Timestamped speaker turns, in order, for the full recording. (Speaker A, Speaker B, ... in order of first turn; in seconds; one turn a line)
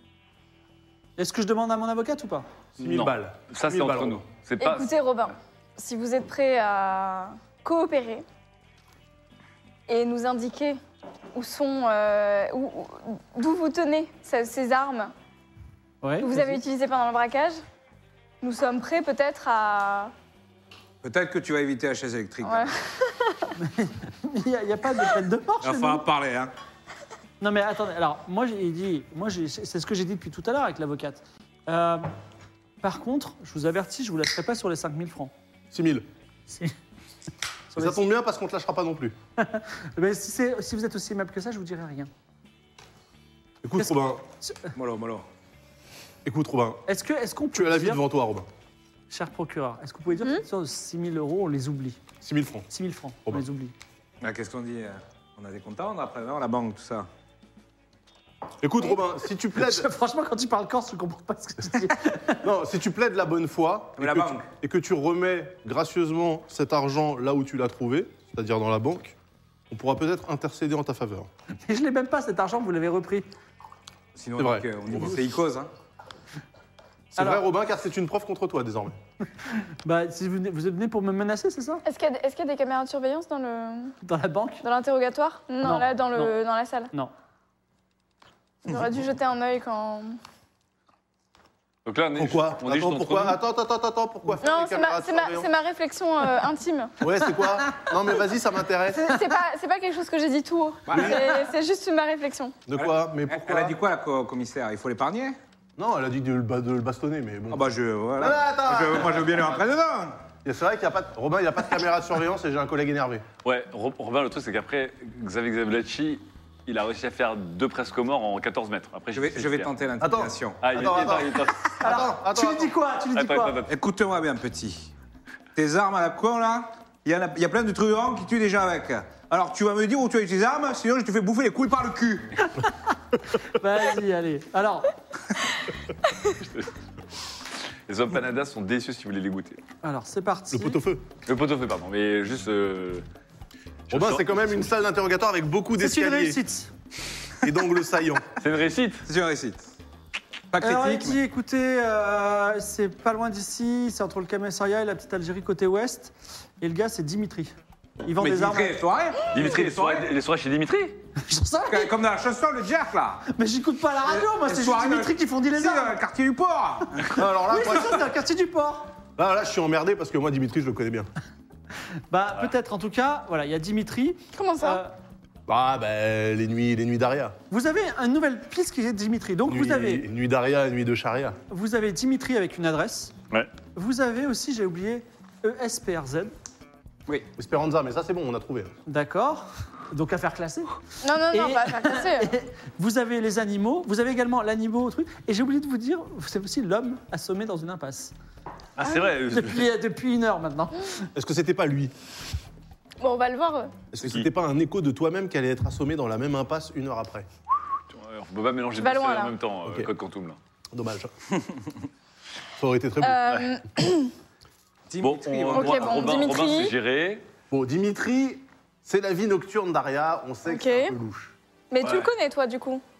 Speaker A: 1.2-2.5
Speaker B: 2.8-4.2
Speaker C: 2.8-4.9
Speaker D: 4.6-8.2
Speaker D: 9.9-10.8
Speaker D: 11.3-15.1
Speaker A: 16.0-16.6
Speaker D: 16.2-17.6
Speaker D: 18.4-20.1
Speaker E: 21.0-22.7
Speaker D: 22.4-23.5
Speaker A: 23.6-26.0
Speaker E: 25.6-26.5
Speaker A: 27.4-32.1
Speaker A: 32.8-35.3
Speaker B: 35.7-36.0
Speaker A: 36.5-36.7
Speaker A: 37.7-38.0
Speaker B: 37.8-39.1
Speaker A: 39.4-42.1
Speaker B: 43.6-44.2
Speaker A: 43.8-44.7
Speaker E: 44.7-45.2
Speaker B: 46.2-46.8
Speaker A: 46.9-48.0
Speaker B: 47.5-48.5
Speaker A: 49.1-52.0
Speaker B: 52.2-52.7
Speaker A: 52.7-53.7
Speaker E: 54.2-57.1
Speaker B: 58.6-59.9
Speaker A: 59.5-62.4
Speaker B: 62.4-69.2
Speaker E: 64.0-64.5
Speaker B: 69.7-71.3
Speaker A: 71.7-73.3
Speaker E: 74.1-75.7
Speaker B: 74.4-75.2
Speaker B: 77.1-79.0
Speaker A: 77.2-77.4
Speaker A: 79.8-81.8
Speaker D: 81.8-83.9
Speaker A: 84.0-84.6
Speaker D: 84.6-86.9
Speaker A: 85.6-86.3
Speaker D: 88.7-90.2
Speaker C: 91.8-93.4
Speaker B: 92.2-95.5
Speaker D: 94.4-96.9
Speaker B: 97.0-99.1
Speaker D: 98.9-102.5
Speaker E: 100.9-101.4
Speaker B: 100.9-101.2
Speaker B: 102.7-103.8
Speaker E: 102.7-105.4
Speaker B: 105.8-109.5
Speaker E: 107.5-110.2
Speaker B: 110.4-113.2
Speaker C: 113.4-119.7
Speaker E: 119.1-120.6
Speaker B: 120.0-122.7
Speaker C: 120.6-121.8
Speaker A: 121.8-123.6
Speaker C: 123.1-123.7
Speaker E: 123.7-124.9
Speaker E: 125.5-132.4
Speaker A: 133.4-134.9
Speaker C: 136.4-136.7
Speaker C: 137.9-139.6
Speaker A: 139.8-140.8
Speaker B: 140.5-141.1
Speaker C: 141.2-143.0
Speaker C: 143.9-144.5
Speaker B: 143.9-146.4
Speaker A: 145.8-146.7
Speaker B: 147.4-148.2
Speaker C: 148.4-149.0
Speaker E: 149.1-149.7
Speaker E: 150.5-151.2
Speaker A: 150.6-157.5
Speaker A: 158.0-158.8
Speaker E: 158.2-160.1
Speaker C: 159.3-161.0
Speaker A: 161.2-161.9
Speaker E: 161.7-163.2
Speaker A: 163.3-165.9
Speaker E: 164.0-167.8
Speaker A: 167.1-168.9
Speaker B: 167.1-168.0
Speaker B: 169.2-171.1
Speaker A: 172.1-174.9
Speaker D: 174.3-174.8
Speaker B: 175.5-177.4
Speaker A: 177.5-180.1
Speaker B: 179.4-181.4
Speaker A: 181.5-183.1
Speaker A: 183.7-186.3
Speaker B: 187.3-188.7
Speaker A: 188.9-190.7
Speaker D: 191.0-192.3
Speaker A: 191.3-198.1
Speaker C: 198.8-199.7
Speaker A: 198.8-201.0
Speaker B: 201.1-201.9
Speaker D: 203.0-203.7
Speaker B: 203.9-207.3
Speaker C: 204.0-204.3
Speaker C: 207.9-210.4
Speaker D: 208.8-209.3
Speaker B: 210.7-211.1
Speaker B: 212.6-213.3
Speaker D: 213.0-214.1
Speaker E: 214.9-216.3
Speaker C: 215.0-217.2
Speaker D: 215.5-216.8
Speaker B: 217.5-221.3
Speaker D: 220.5-220.9
Speaker D: 221.7-222.8
Speaker C: 221.8-222.1